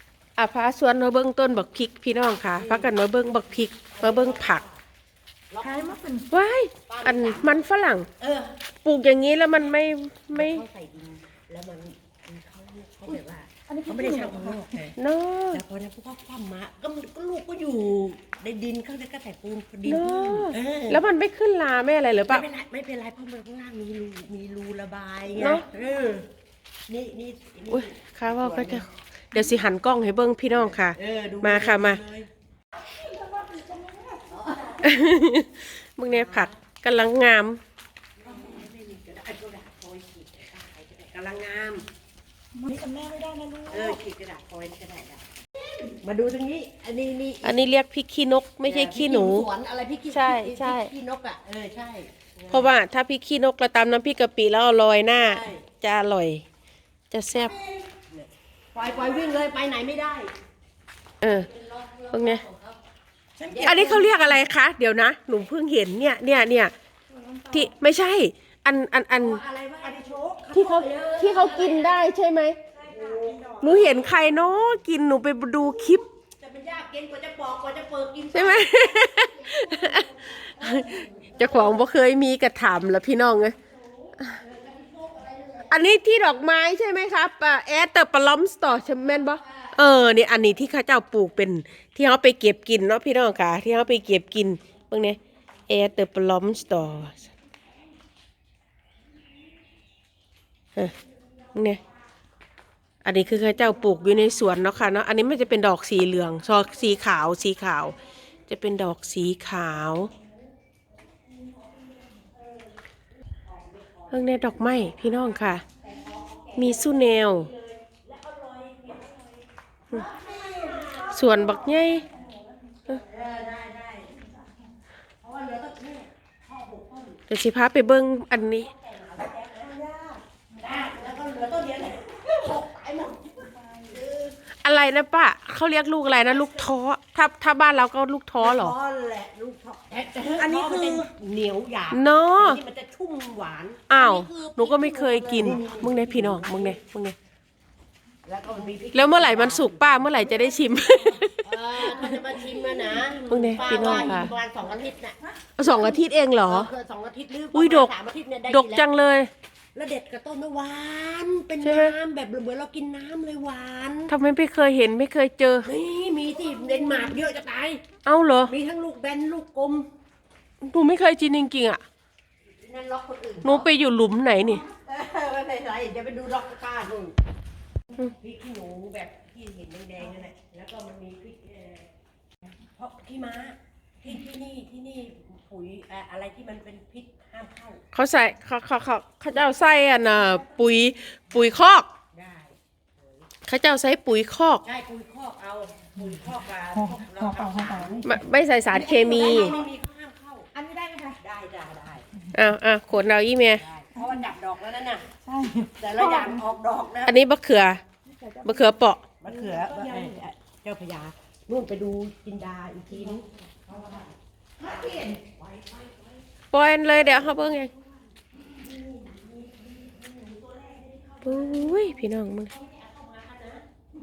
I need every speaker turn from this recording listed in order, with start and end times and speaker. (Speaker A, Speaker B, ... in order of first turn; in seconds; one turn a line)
Speaker A: 0.4-4.6
Speaker B: 2.2-3.0
Speaker B: 3.9-4.8
Speaker B: 5.5-5.9
Speaker C: 5.6-6.3
Speaker A: 6.3-8.1
Speaker B: 6.9-7.6
Speaker B: 8.2-8.6
Speaker A: 8.8-10.6
Speaker B: 10.3-15.0
Speaker C: 13.7-14.7
Speaker A: 15.0-15.6
Speaker B: 15.5-21.0
Speaker A: 19.8-22.4
Speaker B: 22.3-26.3
Speaker A: 25.4-25.6
Speaker B: 26.9-28.9
Speaker A: 27.7-32.0
Speaker B: 30.7-32.3
Speaker C: 33.0-34.7
Speaker B: 34.3-35.0
Speaker A: 34.8-37.6
Speaker B: 36.1-36.5
Speaker B: 38.2-41.9
Speaker C: 42.5-44.0
Speaker B: 43.7-45.2
Speaker B: 45.9-47.6
Speaker A: 47.4-49.5
Speaker B: 48.6-52.7
Speaker A: 50.1-50.9
Speaker A: 52.5-56.4
Speaker B: 55.1-55.6
Speaker A: 57.1-57.5
Speaker B: 57.3-60.3
Speaker A: 61.2-61.5
Speaker B: 61.2-62.8
Speaker A: 62.1-62.4
Speaker B: 63.4-64.3
Speaker A: 63.6-66.7
Speaker C: 67.1-67.6
Speaker A: 67.5-69.4
Speaker B: 69.1-72.1
Speaker A: 70.5-72.6
Speaker B: 72.7-74.2
Speaker C: 72.9-73.9
Speaker A: 73.6-76.0
Speaker B: 76.4-81.8
Speaker A: 78.3-83.5
Speaker B: 84.3-85.8
Speaker A: 85.7-97.2
Speaker B: 89.2-89.7
Speaker A: 101.5-101.8
Speaker A: 103.0-110.1
Speaker B: 113.5-122.2
Speaker A: 114.1-115.6
Speaker A: 116.5-117.5
Speaker A: 121.1-122.1
Speaker C: 121.9-122.5
Speaker B: 122.9-124.3
Speaker B: 125.2-127.2
Speaker A: 127.3-128.7
Speaker B: 128.3-134.4
Speaker C: 133.4-134.0
Speaker A: 134.5-138.7
Speaker B: 136.3-136.6
Speaker B: 138.4-146.8
Speaker A: 140.4-141.1
Speaker A: 141.9-142.6
Speaker A: 143.9-147.2
Speaker B: 148.2-150.2
Speaker A: 148.9-152.3
Speaker C: 150.5-151.2
Speaker B: 151.4-155.7
Speaker C: 152.5-153.2
Speaker A: 153.2-154.3
Speaker C: 153.9-154.2
Speaker A: 155.6-156.7
Speaker B: 156.4-158.9
Speaker A: 157.5-157.9
Speaker A: 158.5-159.3
Speaker B: 159.7-164.1
Speaker A: 161.6-161.9
Speaker A: 164.1-165.7
Speaker B: 165.6-167.8
Speaker A: 168.0-168.5
Speaker B: 168.4-169.9
Speaker A: 170.6-171.8
Speaker B: 172.5-173.7
Speaker A: 173.4-174.6
Speaker B: 174.3-177.1
Speaker B: 178.0-181.9
Speaker B: 182.7-187.8
Speaker A: 187.9-191.9
Speaker B: 192.1-193.2
Speaker A: 193.4-194.6
Speaker B: 194.6-198.1
Speaker C: 196.7-198.1
Speaker A: 198.0-199.6
Speaker B: 198.7-200.5
Speaker C: 200.5-201.2
Speaker B: 201.2-202.1
Speaker A: 202.3-203.6
Speaker B: 203.5-205.1
Speaker C: 203.9-204.2
Speaker C: 205.2-206.4
Speaker B: 205.8-207.2
Speaker A: 207.1-207.8
Speaker C: 208.1-210.1
Speaker A: 208.4-209.1
Speaker B: 209.2-216.2
Speaker C: 214.6-215.1
Speaker A: 216.5-217.7
Speaker B: 216.9-217.8
Speaker B: 218.3-223.6
Speaker A: 221.2-222.5